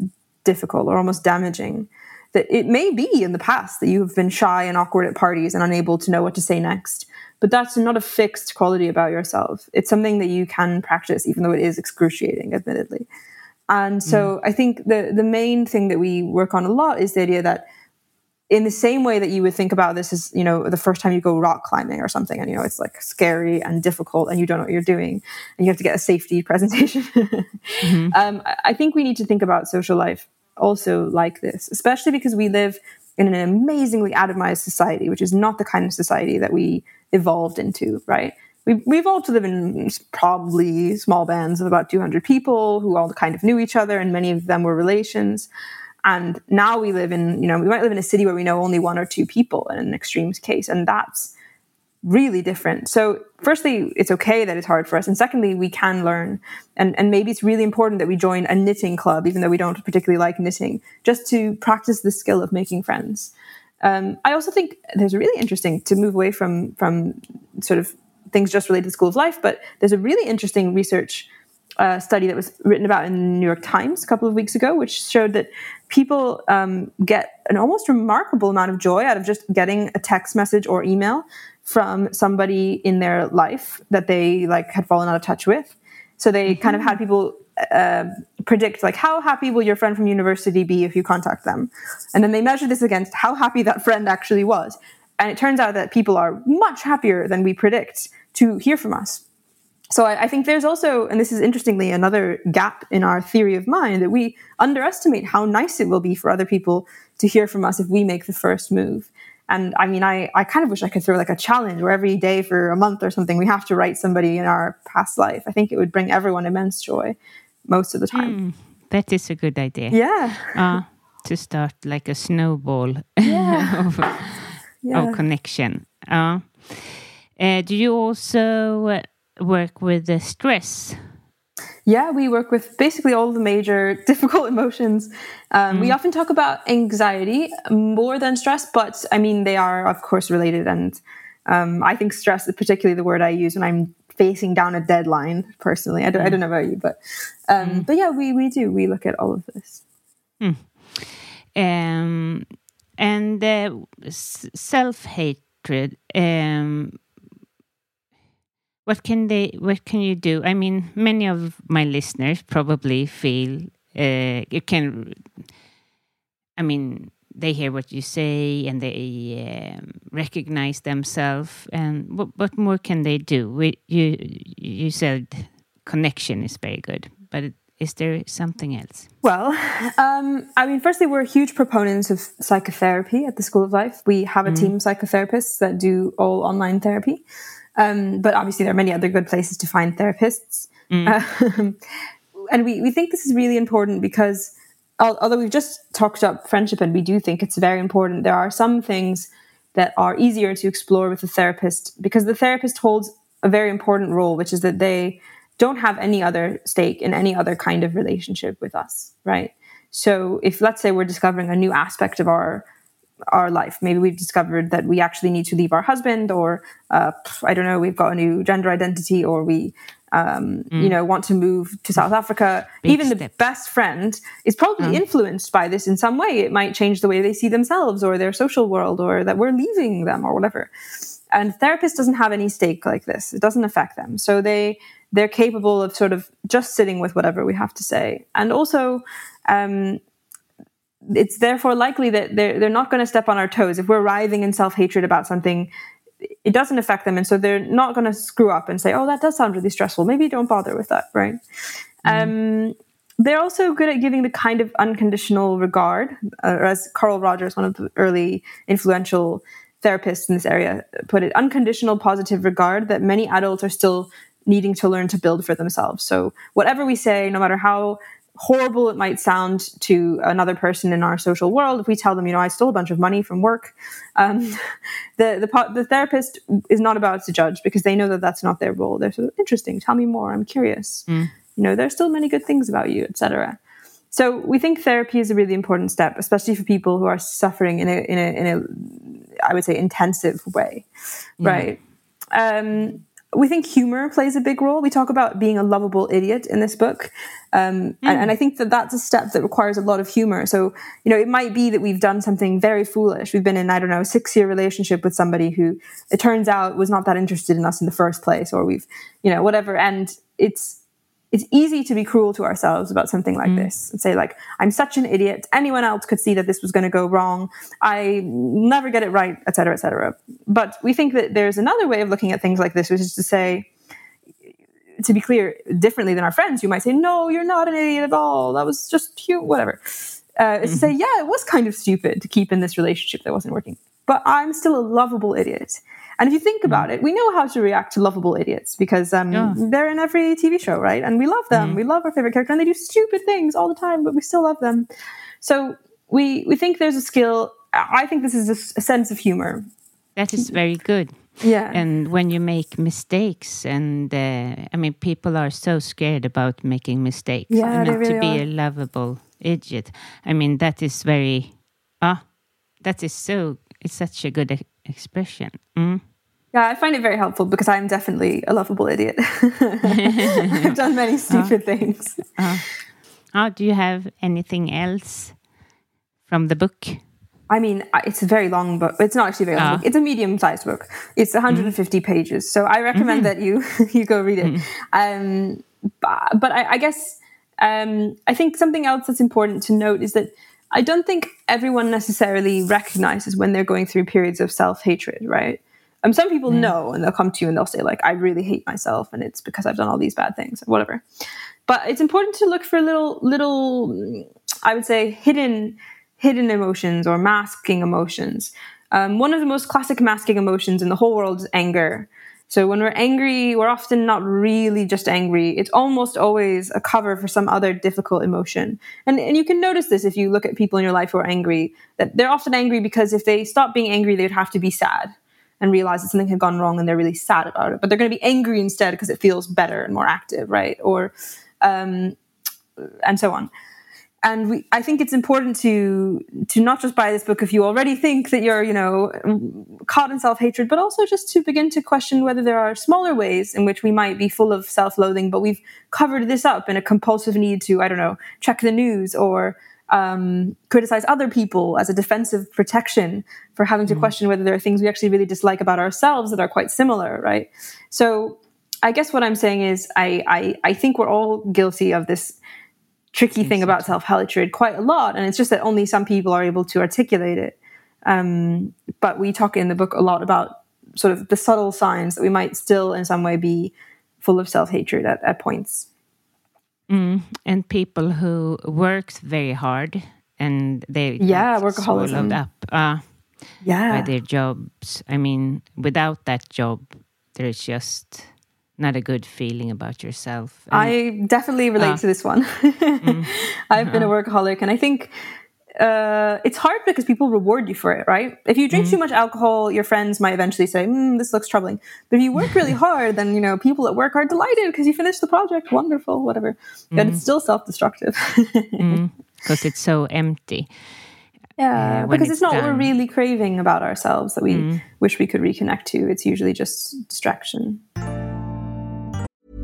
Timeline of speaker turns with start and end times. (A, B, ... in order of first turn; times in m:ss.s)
0:00.4-0:13.1 A
0:13.7-0:17.7 A
0:14.0-0:14.3 B
0:18.5-0:45.5 A
0:27.8-0:28.2 B
0:46.0-0:51.3 A
0:52.0-1:11.3 A
1:11.8-1:39.2 A
1:26.5-1:27.0 B
1:39.9-1:58.4 A
1:58.1-2:11.0 B
1:59.9-2:00.6 A
2:03.2-2:03.9 A
2:04.8-2:05.2 A
2:11.9-2:29.8 A
2:15.7-2:16.0 B
2:27.6-2:27.9 B
2:30.4-2:37.0 B
2:38.9-2:45.5 B
2:46.6-2:59.1 B
2:59.2-3:07.2 A
3:04.4-3:04.7 B
3:07.8-3:11.8 A
3:10.9-3:11.2 B
3:12.5-3:32.6 A
3:33.3-3:50.7 A
3:42.8-3:43.3 B
3:51.3-4:00.0 A
4:01.1-4:05.7 A
4:06.4-4:11.4 A
4:12.0-4:43.6 A
4:12.1-4:12.3 B
4:41.1-4:41.3 B
4:44.1-4:50.9 A
4:51.4-4:51.7 B
4:51.4-4:51.8 A
4:52.3-5:10.8 A
4:58.0-4:58.3 B
5:11.3-5:23.7 A
5:13.4-5:13.7 B
5:25.0-5:44.9 A
5:30.6-5:30.9 B
5:39.3-5:39.6 B
5:41.5-5:41.8 B
5:45.4-5:49.7 A
5:50.2-6:02.3 B
5:51.4-5:51.8 A
5:57.5-5:58.4 A
6:02.8-6:06.0 B
6:06.5-6:12.2 A
6:09.9-6:10.7 B
6:11.3-6:11.6 B
6:12.3-6:12.7 B
6:13.3-6:15.4 B
6:16.3-6:17.0 B
6:17.5-6:41.0 A
6:19.6-6:19.8 B
6:21.5-6:21.7 B
6:22.9-6:23.3 B
6:36.5-6:36.7 B
6:41.7-7:12.2 A
7:12.8-7:13.5 A
7:14.2-7:42.4 A
7:33.9-7:34.1 B
7:43.1-7:55.9 A
7:43.4-7:43.9 B
7:56.9-8:03.2 B
8:01.2-8:02.4 A
8:03.6-8:04.1 A
8:03.9-8:11.0 B
8:10.7-8:15.1 A
8:13.0-8:14.1 B
8:15.8-8:29.0 A
8:18.7-8:19.0 B
8:26.9-8:27.2 B
8:28.8-8:30.7 B
8:31.6-8:37.8 A
8:31.8-8:32.9 B
8:34.5-8:34.8 B